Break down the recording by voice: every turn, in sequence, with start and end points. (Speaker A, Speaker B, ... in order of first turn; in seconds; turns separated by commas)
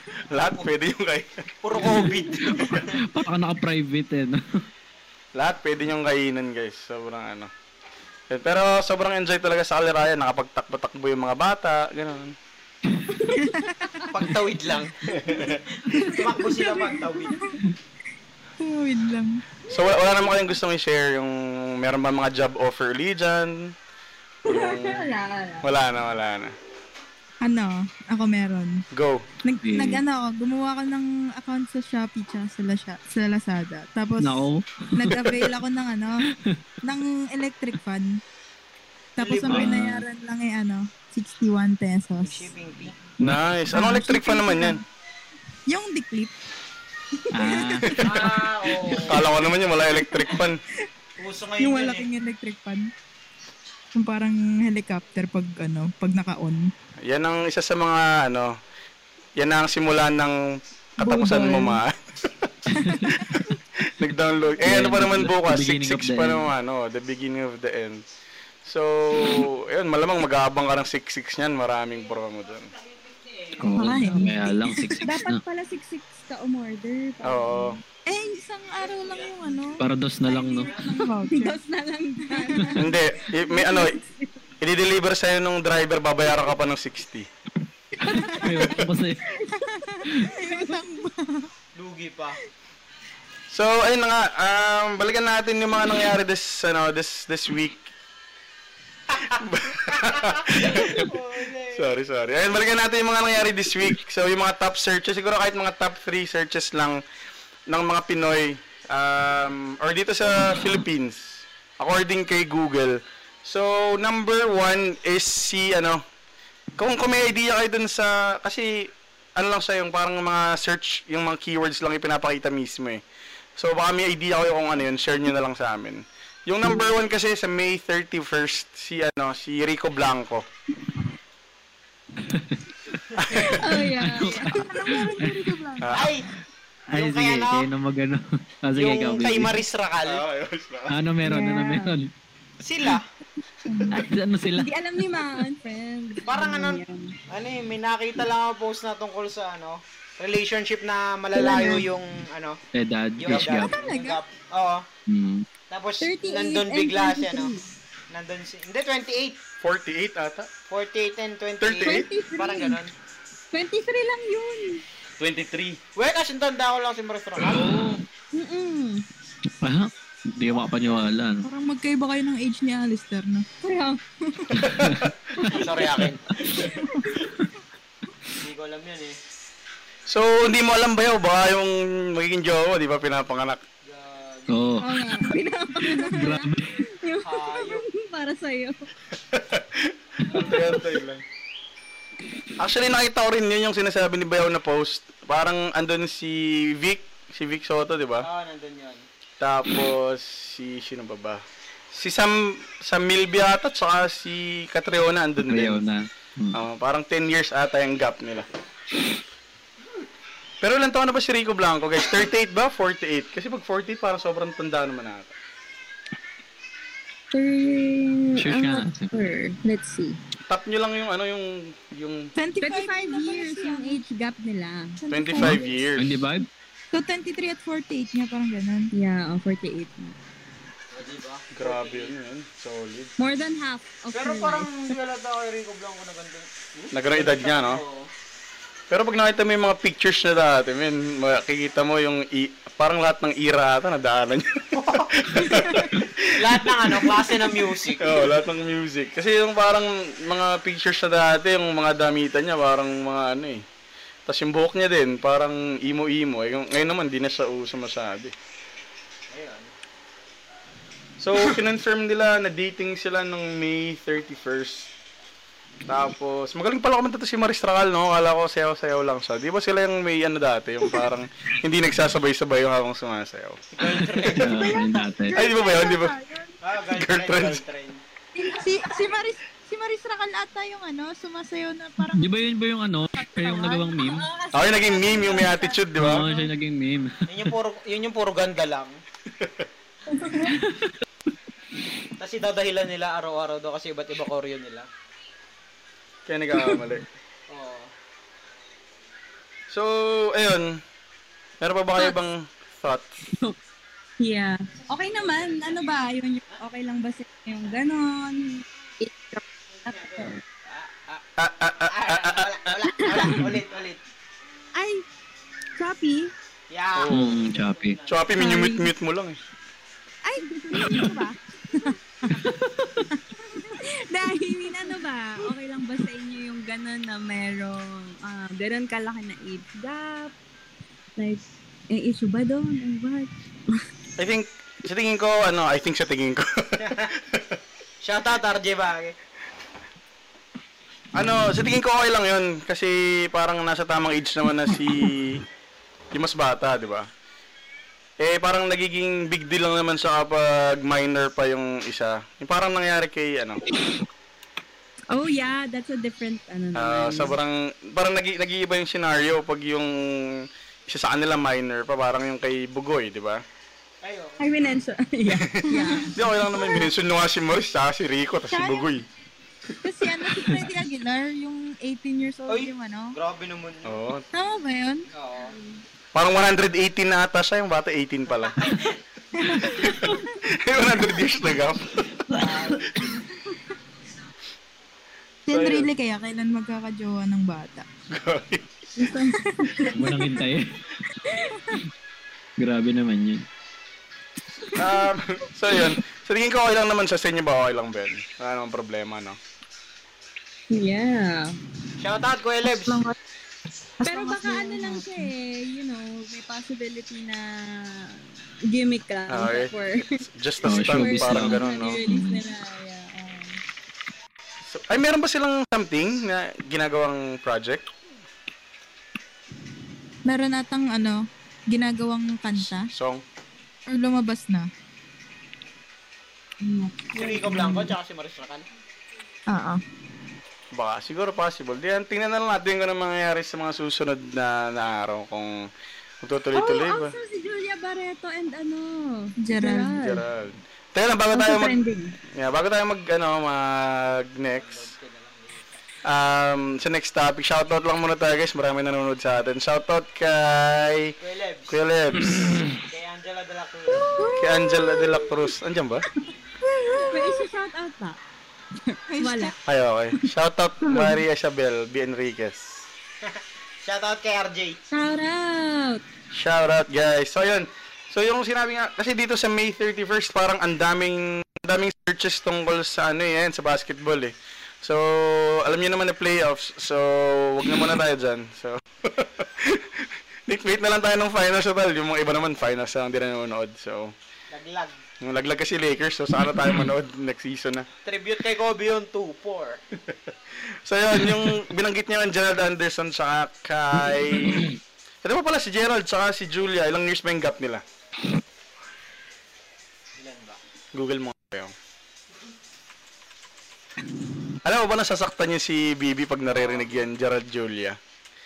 Speaker A: 0.2-1.5, Speaker B: 0.4-0.7, Speaker B: 1.6-3.0, Speaker C: 1.8-4.6, Speaker A: 5.4-7.5, Speaker A: 8.3-12.4, Speaker D: 13.2-13.9, Speaker E: 13.3-14.1, Speaker B: 14.1-17.4, Speaker A: 15.1-15.6, Speaker E: 17.4-17.7, Speaker E: 18.6-19.4, Speaker A: 19.7-23.6, Speaker D: 24.5-25.7, Speaker A: 24.5-25.1, Speaker A: 25.6-26.6, Speaker E: 27.4-28.8, Speaker A: 28.9-29.3, Speaker E: 29.4-36.2, Speaker C: 29.6-30.0, Speaker C: 34.2-35.5, Speaker E: 36.8-38.2, Speaker E: 39.2-42.5, Speaker B: 39.2-39.9, Speaker C: 39.5-40.0, Speaker B: 42.2-43.0, Speaker A: 43.2-44.8, Speaker E: 43.7-44.8, Speaker E: 45.7-46.3, Speaker E: 47.3-48.1, Speaker C: 47.3-48.5, Speaker A: 47.8-48.2, Speaker B: 48.0-49.3, Speaker A: 49.0-50.6, Speaker B: 51.2-52.1, Speaker E: 51.6-52.9, Speaker E: 53.9-56.7, Speaker A: 57.0-58.5, Speaker A: 59.4-62.5, Speaker E: 61.0-61.8, Speaker D: 61.1-61.3, Speaker E: 62.7-63.4, Speaker C: 62.8-63.1, Speaker A: 63.1-68.0, Speaker C: 64.6-66.5, Speaker A: 68.7-72.7, Speaker B: 72.8-73.8, Speaker C: 73.6-75.4, Speaker E: 73.8-75.1, Speaker D: 75.0-77.8, Speaker A: 77.2-77.8, Speaker E: 78.1-81.6, Speaker B: 78.8-81.0, Speaker C: 79.8-80.7, Speaker D: 81.2-84.3, Speaker E: 82.3-82.8, Speaker A: 82.8-84.0, Speaker A: 84.6-87.3, Speaker E: 88.0-88.6, Speaker D: 88.0-88.5, Speaker C: 88.1-89.3, Speaker D: 89.3-90.7, Speaker E: 89.6-91.5, Speaker B: 91.8-92.4, Speaker A: 93.5-97.9, Speaker A: 99.2-101.1, Speaker B: 100.1-101.9, Speaker A: 101.7-107.0, Speaker A: 107.7-116.0, Speaker A: 116.8-123.0, Speaker A: 123.6-130.4, Speaker C: 132.2-133.0, Speaker A: 133.2-133.7, Speaker D: 133.3-135.1, Speaker C: 133.6-135.6, Speaker E: 134.2-135.9, Speaker A: 135.8-136.1, Speaker B: 135.9-136.3, Speaker C: 136.9-139.6, Speaker B: 136.9-137.7, Speaker B: 138.8-140.2, Speaker A: 140.0-141.0, Speaker C: 140.9-142.1, Speaker D: 141.2-141.9, Speaker B: 142.6-143.1, Speaker E: 143.7-144.0, Speaker C: 143.9-144.7, Speaker D: 144.6-147.2, Speaker B: 146.2-152.6, Speaker E: 151.3-151.9, Speaker D: 151.4-151.8, Speaker C: 152.7-153.8, Speaker B: 153.2-154.8, Speaker E: 153.4-154.2, Speaker C: 155.1-155.5, Speaker B: 155.7-157.5, Speaker D: 156.0-157.7, Speaker B: 158.1-159.4, Speaker A: 159.6-160.5, Speaker B: 160.7-162.9, Speaker A: 161.6-162.1, Speaker D: 161.8-162.8, Speaker D: 163.5-164.8, Speaker A: 165.2-165.8, Speaker B: 165.9-167.8, Speaker C: 167.4-168.1, Speaker D: 168.3-169.1, Speaker C: 169.6-171.5, Speaker E: 171.4-173.5, Speaker D: 173.6-174.0, Speaker E: 174.2-174.8, Speaker C: 174.6-175.0, Speaker A: 174.7-175.1, Speaker B: 175.5-176.6, Speaker D: 176.5-177.0, Speaker E: 176.9-177.2, Speaker B: 178.3-179.2, Speaker A: 180.1-183.6, Speaker B: 183.8-184.6, Speaker C: 184.5-185.0, Speaker D: 184.8-188.9, Speaker E: 185.8-186.2, Speaker C: 186.1-186.8, Speaker B: 187.2-187.8, Speaker A: 189.2-191.2, Speaker D: 190.3-190.7, Speaker A: 192.6-198.3, Speaker B: 198.2-199.1, Speaker A: 199.4-201.4, Speaker A: 201.9-205.8, Speaker C: 205.5-206.6, Speaker A: 206.5-208.5, Speaker A: 210.6-215.3, Speaker D: 217.3-220.2, Speaker C: 218.4-219.1, Speaker A: 220.5-222.3, Speaker E: 222.4-224.1, Speaker D: 222.6-225.0, Speaker E: 225.0-225.6, Speaker A: 225.1-226.2, Speaker C: 225.4-226.5, Speaker E: 226.9-228.9, Speaker D: 228.9-230.2, Speaker B: 230.9-232.1, Speaker A: 231.5-233.1, Speaker D: 233.2-234.9, Speaker B: 234.1-238.1, Speaker A: 236.9-237.8, Speaker A: 238.9-247.2, Speaker B: 244.7-248.2, Speaker A: 248.0-253.6, Speaker A: 254.3-258.3, Speaker B: 259.3-259.7, Speaker A: 261.2-264.9, Speaker A: 265.9-273.6, Speaker B: 273.7-274.9, Speaker C: 274.0-275.5, Speaker E: 274.4-276.6, Speaker A: 275.3-276.2, Speaker B: 276.6-278.0, Speaker A: 276.9-277.6, Speaker E: 278.4-282.2, Speaker D: 278.4-279.1, Speaker C: 282.1-284.3, Speaker E: 283.3-283.9, Speaker D: 284.0-286.5, Speaker A: 284.5-286.3, Speaker C: 286.0-287.5, Speaker B: 287.3-289.0, Speaker A: 289.4-289.7, Speaker D: 290.2-290.8, Speaker B: 292.2-294.9, Speaker A: 296.3-297.1, Speaker B: 297.5-297.9, Speaker A: 299.7-300.8, Speaker A: 301.6-303.2, Speaker D: 303.3-303.6, Speaker D: 304.2-310.4, Speaker B: 309.9-311.2, Speaker A: 311.4-312.7, Speaker B: 311.9-314.0, Speaker D: 313.0-313.4, Speaker D: 314.8-315.0, Speaker D: 315.8-316.3, Speaker B: 316.7-318.4, Speaker A: 316.9-317.4, Speaker C: 317.1-318.0, Speaker A: 318.1-319.4, Speaker D: 318.4-318.9, Speaker D: 320.2-330.3, Speaker E: 320.7-321.3, Speaker E: 321.9-322.4, Speaker D: 331.2-333.8, Speaker A: 334.2-337.6, Speaker B: 336.8-337.1, Speaker B: 338.0-339.2, Speaker A: 341.1-345.4, Speaker A: 346.1-347.1, Speaker A: 348.2-353.6, Speaker D: 355.1-357.4, Speaker A: 356.8-363.4, Speaker B: 364.0-364.4, Speaker D: 364.4-366.2, Speaker A: 365.3-369.1, Speaker E: 365.7-366.2, Speaker E: 368.5-368.9, Speaker E: 369.8-373.2, Speaker B: 372.5-374.0, Speaker A: 373.9-374.2, Speaker E: 374.3-375.1, Speaker B: 375.1-375.5, Speaker A: 376.1-378.6, Speaker B: 378.4-379.0, Speaker E: 379.4-380.1, Speaker A: 379.5-382.0, Speaker C: 382.3-382.8, Speaker B: 382.3-383.0, Speaker E: 385.5-387.9, Speaker A: 385.5-385.9, Speaker A: 388.1-388.7, Speaker D: 389.0-390.2, Speaker E: 389.4-390.0, Speaker C: 389.9-390.8, Speaker D: 391.2-391.7, Speaker C: 392.6-393.4, Speaker A: 394.8-399.4, Speaker D: 400.7-401.6, Speaker B: 402.0-403.0, Speaker E: 402.9-403.1, Speaker E: 404.0-405.3, Speaker D: 404.0-408.2, Speaker D: 408.7-413.6, Speaker A: 409.3-409.7, Speaker A: 410.2-412.0, Speaker C: 410.6-412.4, Speaker A: 414.7-417.9, Speaker E: 420.3-422.9, Speaker A: 422.6-423.2, Speaker E: 423.9-424.7, Speaker D: 426.7-427.9, Speaker B: 427.1-428.7, Speaker E: 427.2-427.8, Speaker E: 429.5-429.8, Speaker A: 430.7-435.7, Speaker A: 436.2-437.1, Speaker D: 436.5-440.2, Speaker E: 439.4-440.0, Speaker A: 440.0-441.8, Speaker D: 441.3-442.2, Speaker A: 442.4-444.9, Speaker B: 444.6-445.8, Speaker A: 446.1-451.2, Speaker B: 451.2-451.8, Speaker A: 451.7-452.6, Speaker C: 452.2-452.8, Speaker B: 452.8-454.2, Speaker E: 454.0-455.4, Speaker A: 454.3-456.1, Speaker E: 456.6-457.4, Speaker D: 457.1-458.2, Speaker D: 458.9-459.5, Speaker E: 459.1-459.5, Speaker A: 459.7-462.9, Speaker B: 463.2-464.8, Speaker D: 464.9-466.0, Speaker A: 466.3-484.1, Speaker B: 484.5-485.0, Speaker A: 485.2-487.9, Speaker B: 488.1-489.8, Speaker A: 490.1-497.8, Speaker B: 500.2-500.6, Speaker A: 500.9-501.7, Speaker A: 504.6-508.0, Speaker B: 506.5-506.9